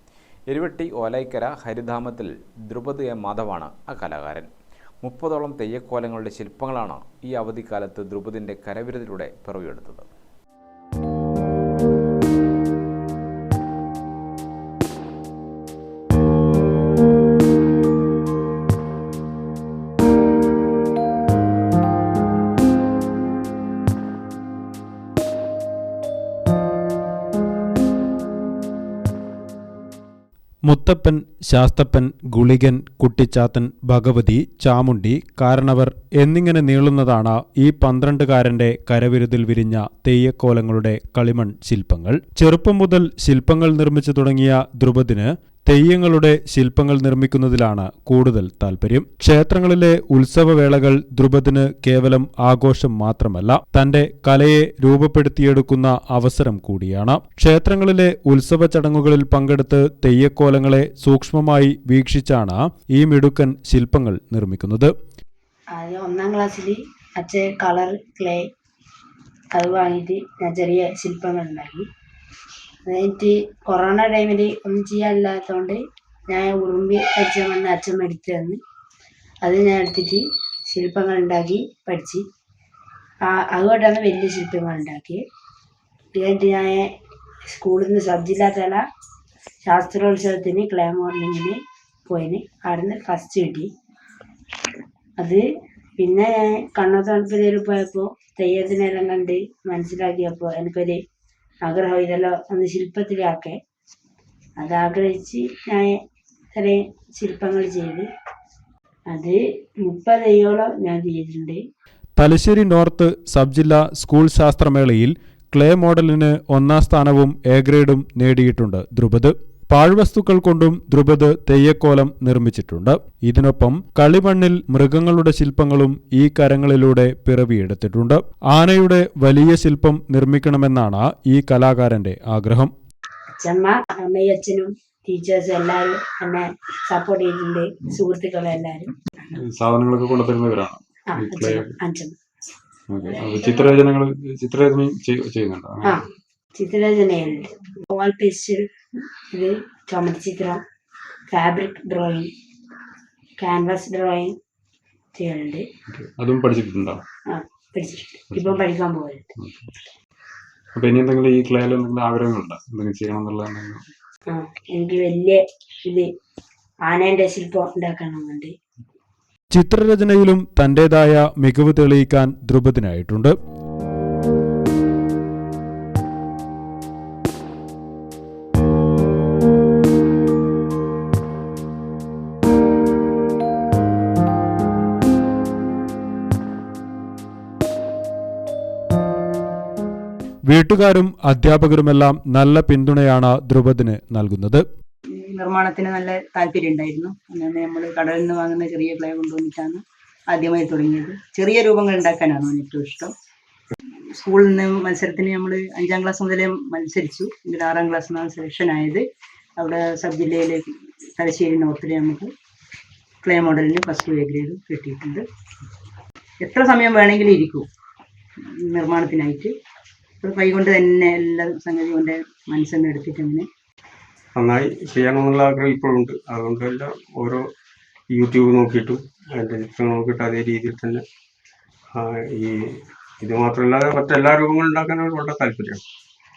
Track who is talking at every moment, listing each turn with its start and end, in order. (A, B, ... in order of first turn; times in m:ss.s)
0:00.5-0:04.5 A
0:05.0-0:10.1 A
0:30.7-1:04.9 B
1:05.8-1:08.4 C
1:09.6-1:11.9 C
1:12.9-1:18.6 C
1:19.4-1:22.2 C
1:23.3-1:25.2 C
1:26.2-1:26.9 C
1:27.5-1:28.8 C
1:29.7-1:33.7 C
1:36.0-1:41.0 C
1:41.6-1:43.6 C
1:44.6-1:45.9 C
1:46.5-1:48.1 C
1:49.1-1:51.6 C
1:52.2-2:12.7 B
2:13.4-2:18.9 C
2:19.3-2:21.7 D
2:21.1-2:22.2 C
2:22.9-2:26.0 D
2:26.6-2:28.7 C
2:29.3-2:30.6 C
2:31.3-2:32.3 C
2:33.4-2:34.3 C
2:35.2-2:35.6 C
2:35.9-2:37.0 D
2:37.3-2:39.2 C
2:39.4-2:39.7 D
2:40.8-2:43.8 D
2:44.3-2:46.1 C
2:46.9-2:48.5 C
2:49.5-2:53.3 B
3:10.5-3:14.6 B
3:15.1-3:23.1 E
3:23.9-3:29.0 E
3:29.6-3:32.3 E
3:33.2-3:35.2 E
3:36.4-3:37.7 E
3:38.4-3:39.5 E
3:40.2-3:43.5 E
3:44.4-3:47.5 F
3:48.1-3:51.0 F
3:52.0-3:55.8 F